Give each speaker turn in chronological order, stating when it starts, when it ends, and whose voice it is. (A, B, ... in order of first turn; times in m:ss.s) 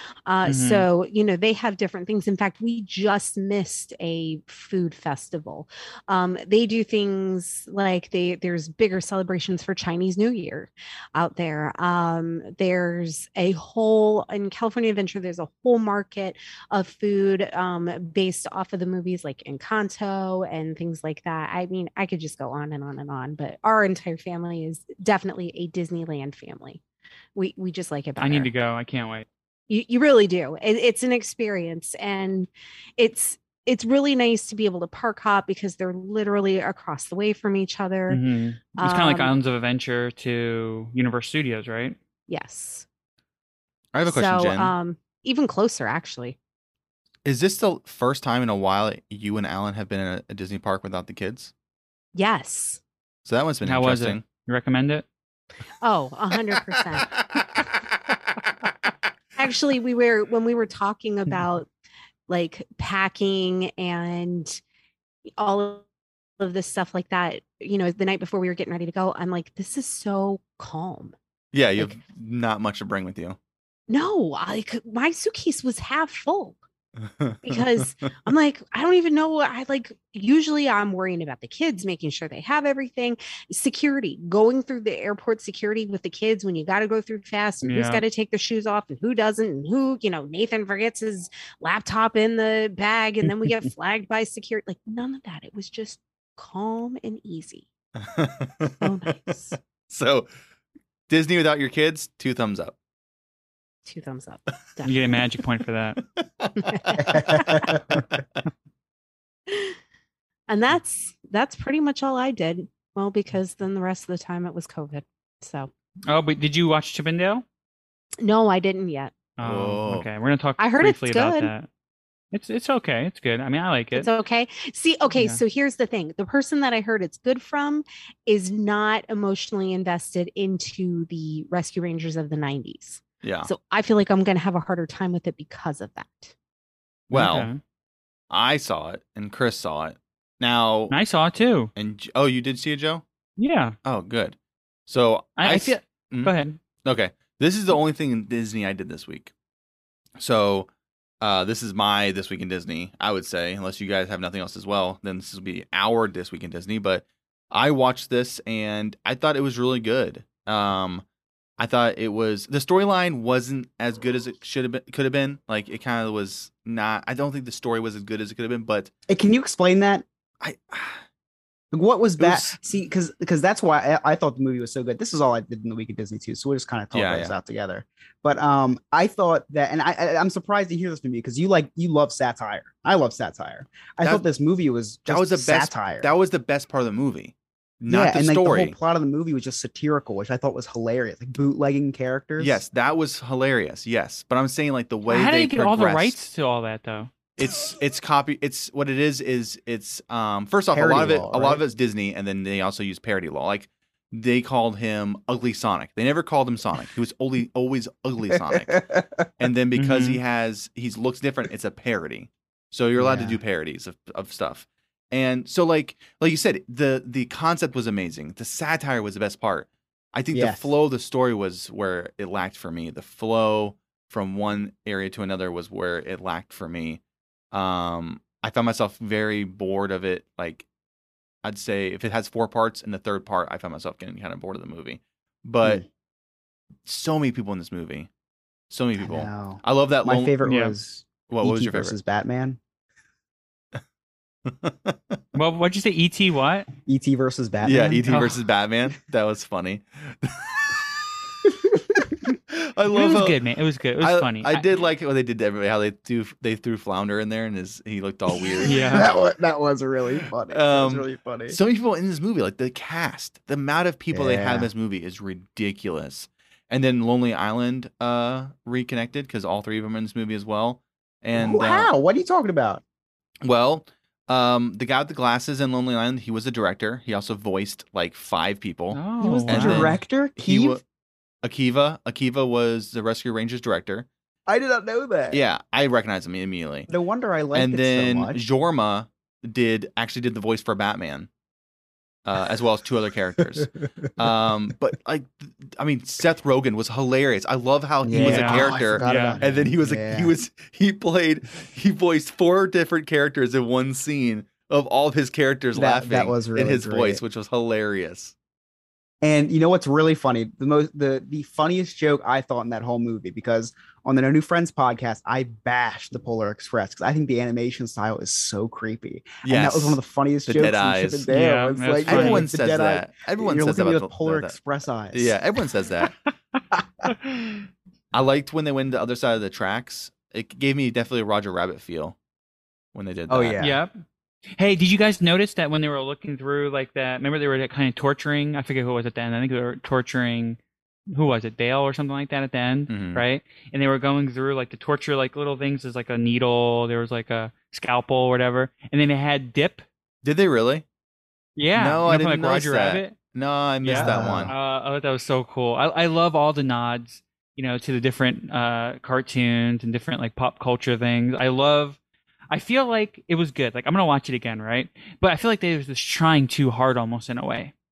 0:00.3-0:26.8 A
0:00.4-0:00.8 B
0:27.3-0:28.5 A
0:28.2-0:29.3 B
0:29.7-0:38.2 A
0:38.1-0:42.0 B
0:38.8-0:39.3 A
0:42.3-0:42.8 A
0:43.9-0:44.7 C
0:44.0-0:46.4 A
0:47.2-0:51.5 C
0:52.1-0:52.8 A
0:53.2-0:54.2 C
0:53.6-0:55.0 B
0:55.8-0:57.2 A
0:57.2-0:57.7 C
0:59.4-1:01.7 A
1:02.3-1:04.6 A
1:05.4-1:05.9 A
1:06.4-1:11.1 A
1:11.5-1:13.4 C
1:13.9-1:16.6 A
1:17.2-1:17.6 C
1:17.4-1:37.6 A
1:27.6-1:28.0 B
1:38.0-1:38.8 C
1:38.8-1:39.6 A
1:39.9-1:40.3 C
1:41.1-1:42.7 C
1:43.8-1:45.2 A
1:44.8-1:46.0 B
1:46.2-1:46.8 C
1:46.6-1:47.8 A
1:47.0-1:48.0 D
1:49.5-1:49.8 A
1:50.5-1:55.7 A
1:56.1-1:57.4 B
1:58.2-1:59.1 A
1:59.4-2:01.7 B
1:59.4-2:00.1 C
2:00.6-2:01.5 A
2:02.3-2:04.1 B
2:03.9-2:16.3 A
2:05.1-2:05.4 B
2:13.2-2:13.5 C
2:17.1-2:17.5 C
2:17.1-2:17.6 B
2:18.3-2:20.9 C
2:20.9-2:21.7 B
2:21.7-2:23.0 C
2:23.4-2:23.8 B
2:23.8-2:24.4 C
2:24.9-2:29.3 C
2:25.4-2:26.6 B
2:30.2-2:30.7 C
2:31.2-2:41.0 C
2:41.6-2:48.9 C
2:49.1-2:50.0 D
2:50.4-2:51.0 C
2:51.7-3:06.1 D
2:52.2-2:52.6 C
2:56.9-2:57.3 C
3:05.1-3:08.8 C
3:07.9-3:12.6 D
3:12.4-3:16.2 C
3:15.1-3:17.1 B
3:17.4-3:28.8 C
3:20.7-3:21.6 D
3:28.3-3:29.2 D
3:29.4-3:47.0 C
3:29.8-3:30.2 B
3:33.0-3:33.4 D
3:40.3-3:40.7 D
3:47.5-3:50.6 C
3:51.4-3:55.8 C
3:56.8-3:58.1 C
3:58.7-4:00.3 C
3:59.0-4:02.6 D
4:00.4-4:00.7 B
4:01.3-4:02.0 C
4:04.4-4:05.2 C
4:05.3-4:06.7 B
4:06.9-4:08.1 D
4:07.6-4:10.9 C
4:08.1-4:08.3 B
4:11.4-4:12.1 D
4:12.5-4:13.4 C
4:12.9-4:14.7 B
4:14.0-4:19.1 C
4:18.6-4:21.6 D
4:18.6-4:19.1 B
4:20.5-4:31.9 C
4:24.1-4:24.7 D
4:31.3-4:32.8 D
4:33.4-4:40.8 C
4:38.9-4:39.9 B
4:39.2-4:40.8 D
4:41.4-4:44.1 C
4:44.5-4:45.4 D
4:45.3-4:46.9 C
4:46.9-4:48.4 D
4:47.5-4:51.3 C
4:52.2-5:08.3 C
4:58.0-5:00.3 D
4:58.1-4:59.4 B
5:05.7-5:07.2 D
5:09.2-5:25.3 D
5:19.4-5:21.3 C
5:21.3-5:22.4 B
5:22.0-5:26.1 C
5:27.1-5:27.6 B
5:28.1-5:32.2 C
5:32.9-5:33.6 C
5:33.3-5:33.8 D
5:33.6-5:34.0 B
5:34.6-5:40.6 B
5:41.1-5:49.8 B
5:42.9-5:43.2 C
5:50.2-5:50.8 C
5:51.6-5:53.2 B
5:51.7-5:54.5 C
5:53.8-6:02.0 B
5:53.9-5:54.5 D
6:02.5-6:07.7 B